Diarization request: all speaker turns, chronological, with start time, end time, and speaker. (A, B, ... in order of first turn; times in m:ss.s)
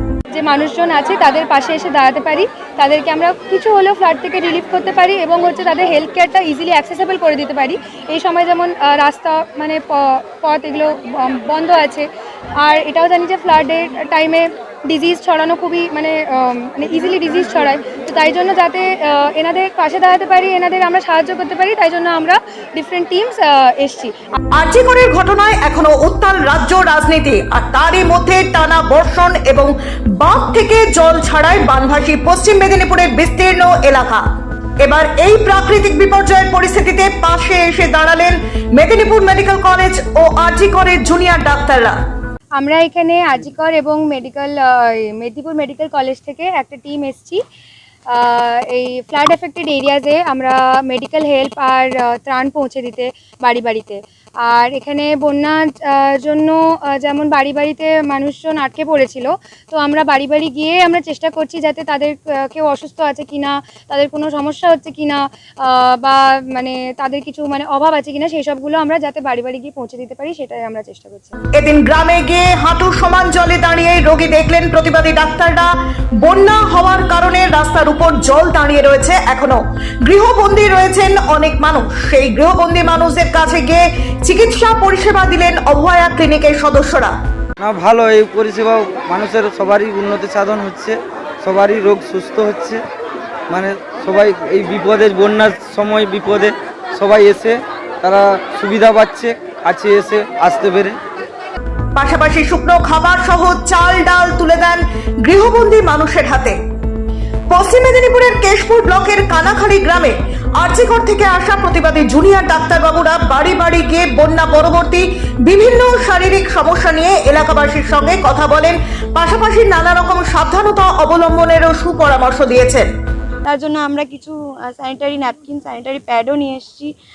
0:00.3-0:12.1 A
0:12.6-0:24.1 A
0:24.6-0:34.2 B
0:34.8-0:42.0 B
0:42.6-0:47.4 A
0:48.1-1:11.4 A
1:11.5-1:27.1 B
1:27.6-1:32.8 C
1:33.5-1:41.0 C
1:41.9-1:46.6 B
1:47.5-2:02.9 B
2:03.4-2:06.9 D